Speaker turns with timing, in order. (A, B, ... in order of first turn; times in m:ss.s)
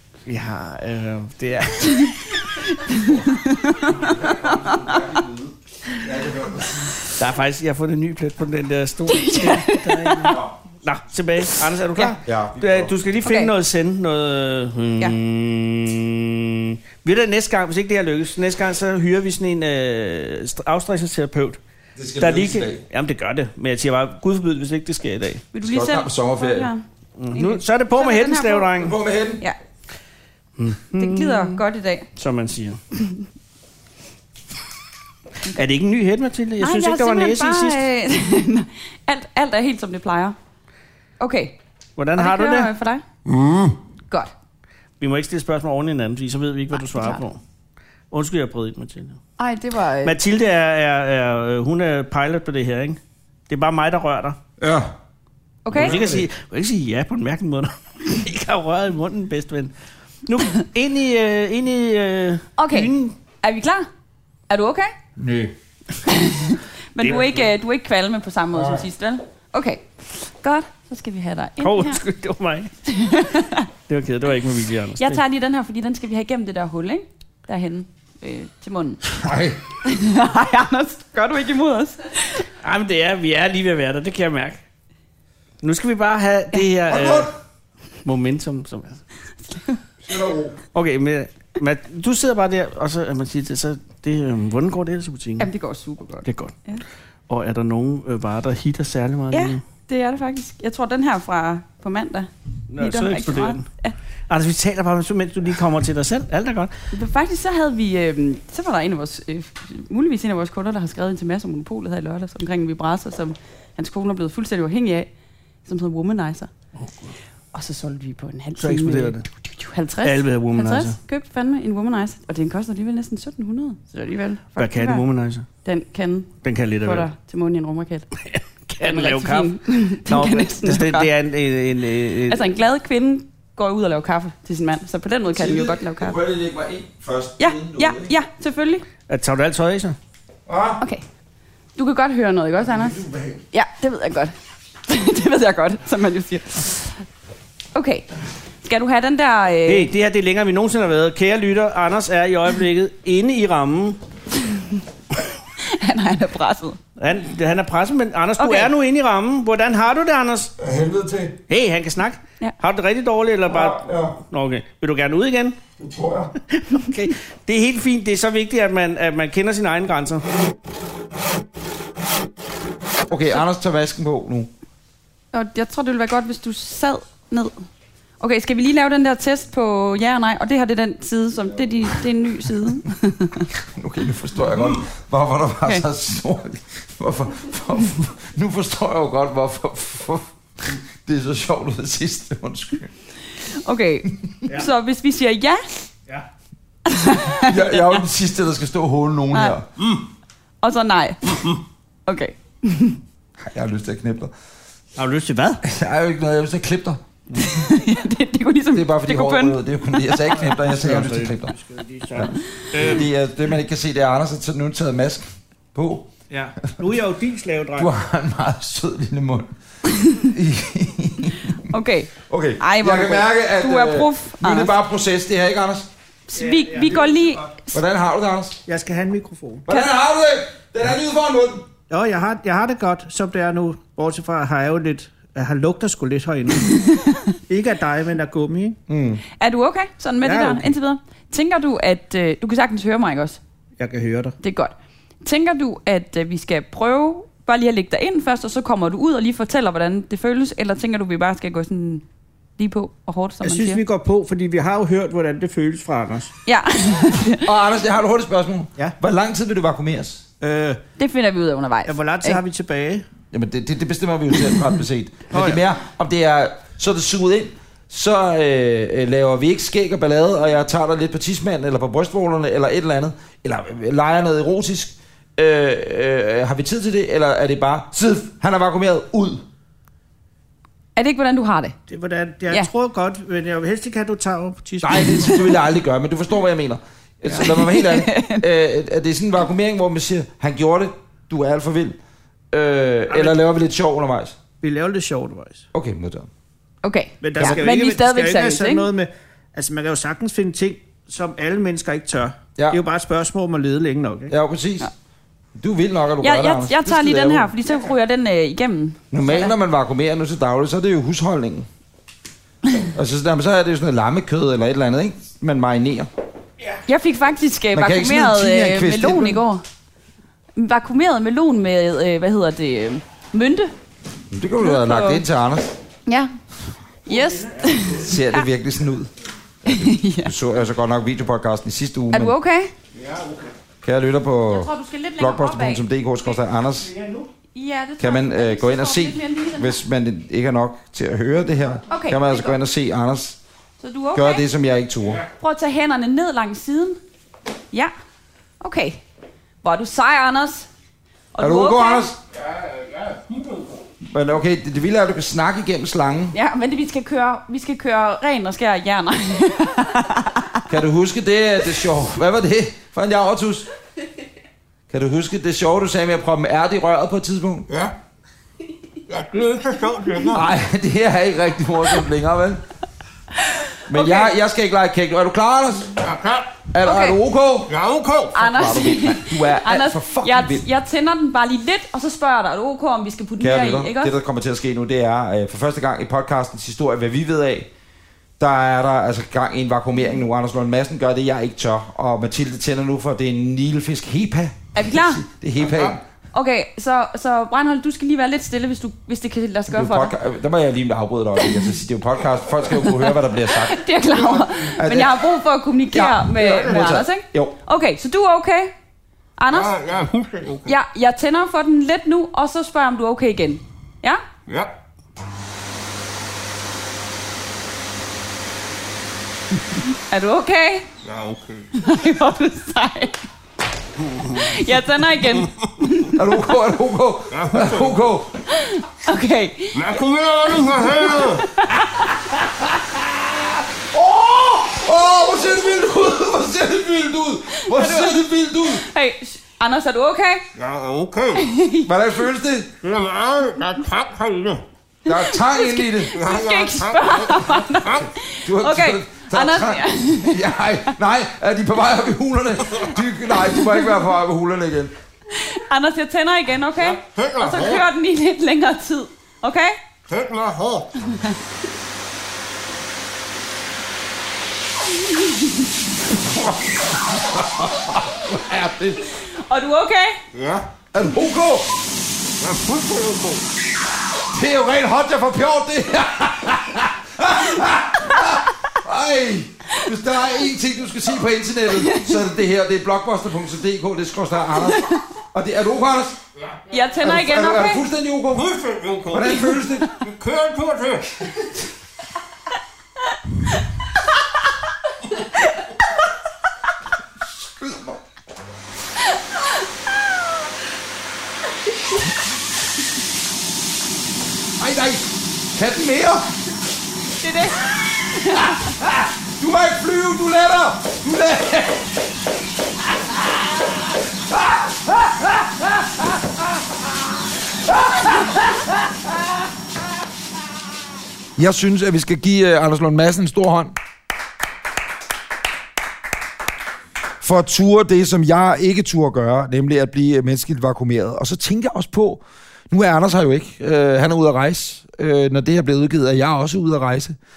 0:00.3-0:02.0 A
0:01.9-0:04.3 B
0:03.9-0:07.0 C
0:07.2-0:21.6 A
0:09.1-0:10.4 B
0:10.2-0:10.5 C
0:12.2-0:12.9 C
0:13.2-0:13.5 B
0:22.0-0:22.8 C
0:22.2-0:25.4 A
0:25.5-0:28.7 B
0:25.6-0:26.7 C
0:27.2-0:29.0 A
0:28.8-0:29.4 C
0:30.6-0:31.6 A
0:31.0-0:32.1 B
0:32.2-0:32.8 A
0:35.5-0:37.8 A
0:36.6-0:40.4 B
0:41.2-0:41.6 B
0:42.0-0:42.7 A
0:42.2-0:43.0 B
0:45.0-0:47.4 A
0:46.7-0:47.2 B
0:48.1-0:49.2 A
0:49.4-0:50.2 B
0:50.0-0:54.4 A
0:54.6-0:54.9 C
0:55.7-0:56.0 B
0:55.7-0:56.3 C
0:55.7-0:59.7 A
1:00.3-1:03.1 A
1:02.6-1:03.9 B
1:04.5-1:04.9 B
1:05.2-1:05.5 C
1:06.1-1:12.0 B
1:07.0-1:07.5 A
1:08.5-1:08.8 C
1:11.6-1:12.7 A
1:12.9-1:13.7 B
1:13.9-1:15.2 A
1:15.0-1:19.0 B
1:19.2-1:19.6 C
1:19.8-1:22.4 B
1:22.6-1:24.6 A
1:25.6-1:27.3 A
1:26.9-1:27.3 C
1:28.0-1:29.0 A
1:29.5-1:29.8 B
1:30.0-1:30.6 C
1:30.7-1:35.5 A
1:35.4-1:36.8 B
1:36.2-1:36.6 A
1:37.3-1:39.6 A
1:39.3-1:44.0 B
1:42.7-1:43.7 A
1:44.3-1:46.7 A
1:46.9-1:55.1 B
1:55.6-1:56.5 B
1:56.8-1:57.1 A
1:57.5-2:05.0 B
1:58.6-1:59.3 A
2:00.0-2:01.0 A
2:04.6-2:05.4 A
2:05.6-2:08.1 B
2:06.4-2:07.1 A
2:08.2-2:12.4 A
2:08.8-2:11.1 B
2:12.3-2:16.2 B
2:15.3-2:18.1 C
2:17.4-2:18.8 B
2:19.1-2:20.0 A
2:20.5-2:20.8 C
2:21.8-2:23.0 B
2:22.7-2:23.4 C
2:23.5-2:24.3 B
2:24.9-2:27.0 B
2:27.7-2:28.1 B
2:28.6-2:29.9 B
2:29.7-2:34.0 A
2:35.6-2:36.8 B
2:37.0-2:40.5 A
2:38.4-2:38.7 B
2:40.6-2:41.4 C
2:41.5-2:45.6 A
2:43.5-2:44.2 C
2:45.8-2:46.3 C
2:46.5-2:50.2 A
2:53.1-2:54.5 C
2:55.3-2:57.6 B
2:58.2-3:03.5 B
3:03.6-3:12.9 C
3:13.6-3:15.8 B
3:16.9-3:18.0 B
3:17.4-3:19.7 C
3:19.3-3:19.6 B
3:20.6-3:21.4 B
3:22.1-3:23.0 B
3:23.4-3:24.3 C
3:25.0-3:25.6 A
3:25.6-3:27.0 C
3:27.4-3:30.2 B
3:28.7-3:31.5 C
3:30.4-3:33.0 A
3:32.1-3:36.1 C
3:36.3-3:37.9 A
3:37.8-3:39.5 C
3:40.2-3:45.9 C
3:41.7-3:44.7 B
3:46.3-3:47.8 B
3:46.4-3:47.4 A
3:47.7-3:48.6 C
3:48.7-3:49.7 A
3:49.7-3:51.7 C
3:51.9-3:56.7 A
3:56.7-3:57.2 B
3:57.5-3:58.8 A
3:58.9-3:59.2 C
3:59.4-4:03.4 B
4:00.2-4:00.7 A
4:03.8-4:04.4 A
4:04.4-4:12.0 B
4:12.6-4:13.8 B
4:13.4-4:16.3 A
4:16.4-4:17.5 B
4:17.4-4:20.2 C
4:20.4-4:20.8 A
4:21.0-4:22.4 B
4:21.9-4:23.1 A
4:23.3-4:39.4 C
4:25.3-4:25.6 A
4:41.0-4:41.8 B
4:41.9-4:45.4 A
4:44.8-4:52.0 C
4:47.4-4:48.4 B
4:52.5-4:54.4 C
4:53.1-4:53.4 A
4:54.6-4:55.7 A
4:55.7-4:56.3 C
4:56.8-4:58.9 B
4:57.2-5:04.3 A
4:57.4-4:57.6 C
5:04.3-5:04.9 C
5:05.6-5:07.5 C
5:06.2-5:09.5 B
5:09.1-5:11.7 C
5:12.9-5:16.1 C
5:16.9-5:19.6 B
5:17.7-5:19.4 C
5:20.6-5:23.7 B
5:24.3-5:25.7 C
5:24.6-5:25.2 B
5:26.1-5:26.4 B
5:27.1-5:28.4 B
5:27.1-5:27.9 A
5:27.9-5:29.1 C
5:29.7-5:30.3 B
5:29.7-5:32.4 C
5:32.1-5:32.7 B
5:33.0-5:33.4 A
5:33.8-5:36.9 C
5:34.5-5:35.8 B
5:36.8-5:37.3 A
5:37.5-5:39.8 B
5:38.0-5:43.4 C
5:41.9-5:42.6 B
5:43.8-5:44.4 B
5:44.1-5:45.2 C
5:45.4-5:47.0 B
5:48.6-5:49.0 B
5:49.6-5:50.7 B
5:51.3-5:52.1 B
5:51.4-5:52.2 C
5:52.4-5:53.6 D
5:54.1-5:56.4 C
5:56.3-6:00.6 B
6:00.7-6:03.7 C
6:04.9-6:07.7 C
6:07.7-6:08.0 D
6:09.1-6:10.4 D
6:10.3-6:12.6 C
6:13.5-6:14.3 B
6:13.9-6:16.0 C
6:16.0-6:16.6 D
6:16.7-6:17.7 C
6:16.8-6:17.2 B
6:17.7-6:18.4 D
6:18.4-6:24.1 B
6:18.4-6:20.7 C
6:23.4-6:27.7 C
6:28.4-6:36.0 C
6:34.7-6:35.2 B
6:35.6-6:35.9 D
6:36.3-6:40.1 B
6:39.7-6:45.3 C
6:42.7-6:48.7 B
6:45.9-6:47.6 C
6:49.4-6:49.8 B
6:49.5-6:50.7 D
6:50.7-6:54.2 B
6:54.5-6:54.7 D
7:00.1-7:00.9 B
7:01.0-7:01.7 D
7:01.8-7:03.2 B
7:04.3-7:06.2 B
7:06.1-7:08.4 C
7:07.3-7:08.0 D
7:08.5-7:10.0 B
7:09.7-7:11.4 D
7:10.8-7:12.1 B
7:12.9-7:18.9 C
7:17.6-7:20.4 B
7:20.6-7:21.5 D
7:21.4-7:21.9 B
7:21.8-7:22.7 C
7:22.8-7:24.6 D
7:25.0-7:26.2 C
7:25.1-7:30.4 B
7:26.1-7:28.1 D
7:28.4-7:34.9 C
7:35.3-7:39.8 B
7:36.8-7:37.8 D
7:40.1-7:40.9 D
7:46.1-7:49.0 C
7:49.2-7:50.2 B
7:50.3-7:50.7 D
7:50.9-7:51.7 C
7:52.4-7:53.4 D
7:54.2-8:06.2 C
8:01.8-8:02.1 B
8:04.6-8:05.0 B
8:06.7-8:07.8 B
8:07.0-8:08.6 C
8:08.3-8:09.4 D
8:09.1-8:09.9 C
8:10.0-8:11.2 D
8:17.2-8:18.0 C
8:24.6-8:26.3 C
8:27.2-8:28.6 B
8:28.8-8:32.0 C
8:34.3-8:36.2 C
8:37.7-8:38.9 C
8:41.4-8:43.7 C
8:47.2-8:57.2 C